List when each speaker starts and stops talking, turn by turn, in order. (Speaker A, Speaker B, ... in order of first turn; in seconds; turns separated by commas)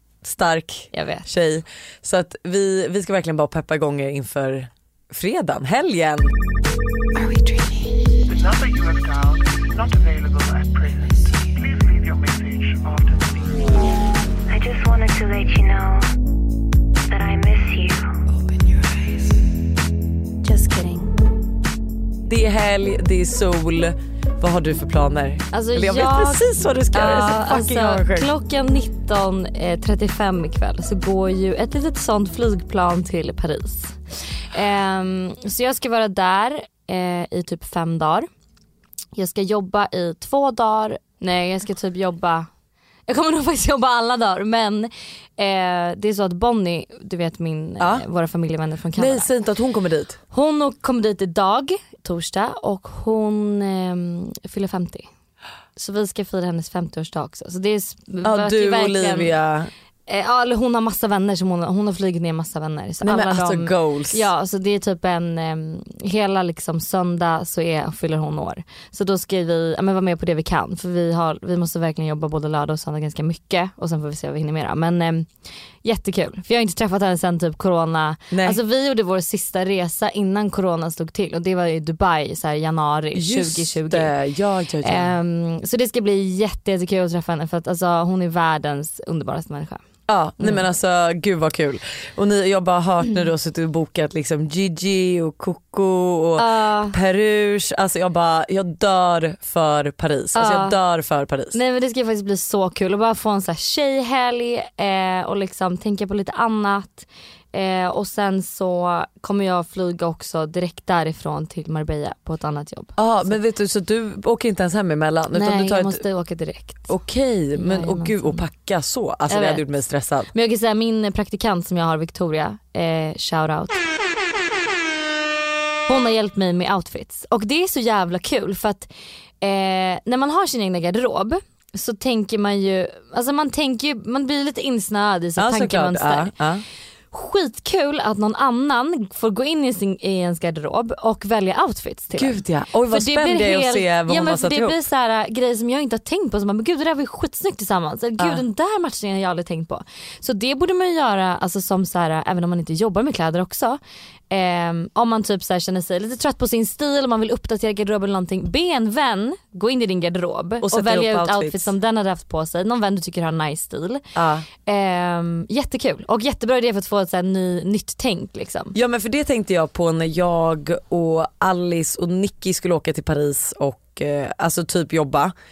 Speaker A: 0.2-6.3, Speaker B: 0.9-1.3, Speaker C: 8.2-13.9, Speaker D: 14.5-16.1, Speaker D: 17.1-18.1, Speaker B: 20.4-21.1, Speaker A: 22.2-28.3, Speaker B: 25.5-34.0, Speaker B: 34.5-38.3, Speaker B: 39.1-42.5, Speaker B: 43.1-49.3, Speaker A: 49.0-50.2, Speaker B: 50.3-55.1, Speaker B: 55.8-59.3, Speaker A: 58.2-59.7, Speaker B: 60.1-75.3, Speaker A: 63.0-64.2, Speaker B: 75.8-84.1, Speaker A: 78.3-78.6, Speaker A: 83.1-85.1, Speaker B: 84.8-89.8, Speaker A: 90.1-101.6, Speaker B: 96.4-97.0, Speaker B: 100.3-100.8, Speaker B: 101.5-113.0, Speaker A: 113.0-116.0, Speaker B: 115.3-116.9, Speaker A: 116.9-120.3, Speaker B: 117.5-118.4, Speaker B: 119.3-119.6, Speaker B: 120.3-123.8, Speaker B: 125.9-136.3, Speaker A: 135.4-136.6, Speaker B: 137.1-164.0, Speaker A: 142.2-144.8, Speaker A: 160.6-161.7, Speaker A: 164.1-164.5, Speaker B: 164.7-168.7, Speaker A: 168.7-175.3